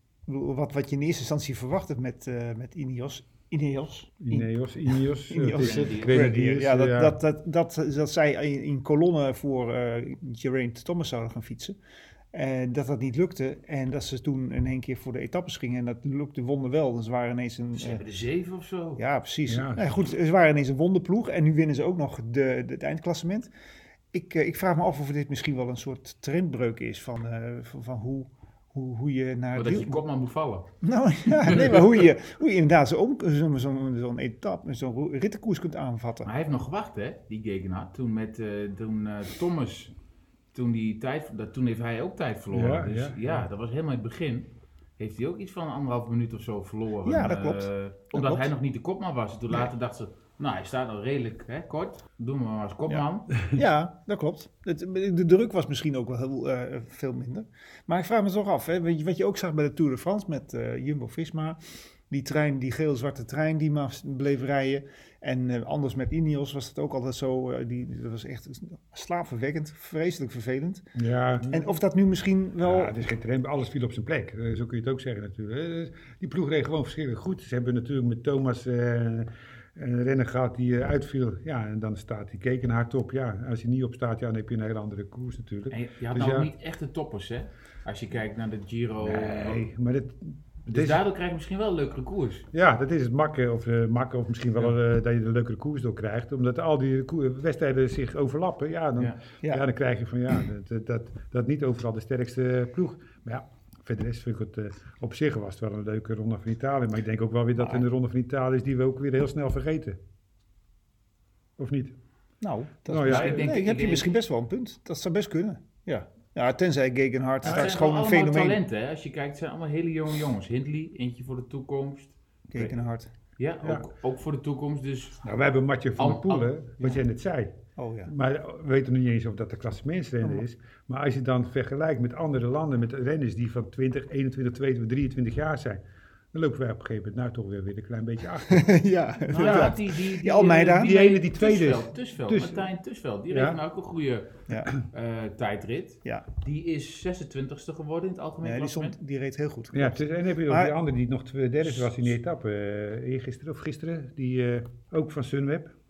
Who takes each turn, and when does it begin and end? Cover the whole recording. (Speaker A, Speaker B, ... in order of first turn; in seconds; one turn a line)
Speaker A: 0.3-11.8
Speaker B: 4.2-7.2
Speaker C: 5.5-6.3
Speaker A: 12.3-18.0
Speaker C: 17.8-19.0
Speaker A: 19.0-23.5
Speaker B: 19.5-20.1
Speaker A: 24.1-30.0
Speaker C: 29.6-30.7
Speaker A: 30.8-36.3
Speaker C: 31.3-32.0
Speaker C: 36.2-39.9
Speaker C: 40.5-53.3
Speaker B: 42.5-43.2
Speaker A: 47.0-48.5
Speaker A: 52.9-70.9
Speaker B: 71.0-71.7
Speaker A: 71.4-73.1
Speaker B: 72.6-86.5
Speaker C: 85.7-89.6
Speaker B: 89.0-91.0
Speaker C: 90.7-92.5
Speaker B: 92.5-110.0
Speaker B: 111.6-112.0
Speaker A: 112.4-118.6
Speaker B: 112.9-113.4
Speaker C: 113.0-114.1
Speaker B: 117.4-117.8
Speaker C: 117.4-122.8
Speaker A: 122.5-123.1
Speaker C: 123.4-125.2
Speaker B: 125.2-127.5
Speaker C: 126.0-126.5
Speaker A: 127.8-128.1
Speaker B: 128.1-138.7
Speaker A: 138.5-141.0
Speaker C: 139.3-148.9
Speaker B: 139.4-139.8
Speaker B: 140.6-142.7
Speaker B: 143.3-143.6
Speaker A: 148.4-150.8
Speaker B: 149.7-155.8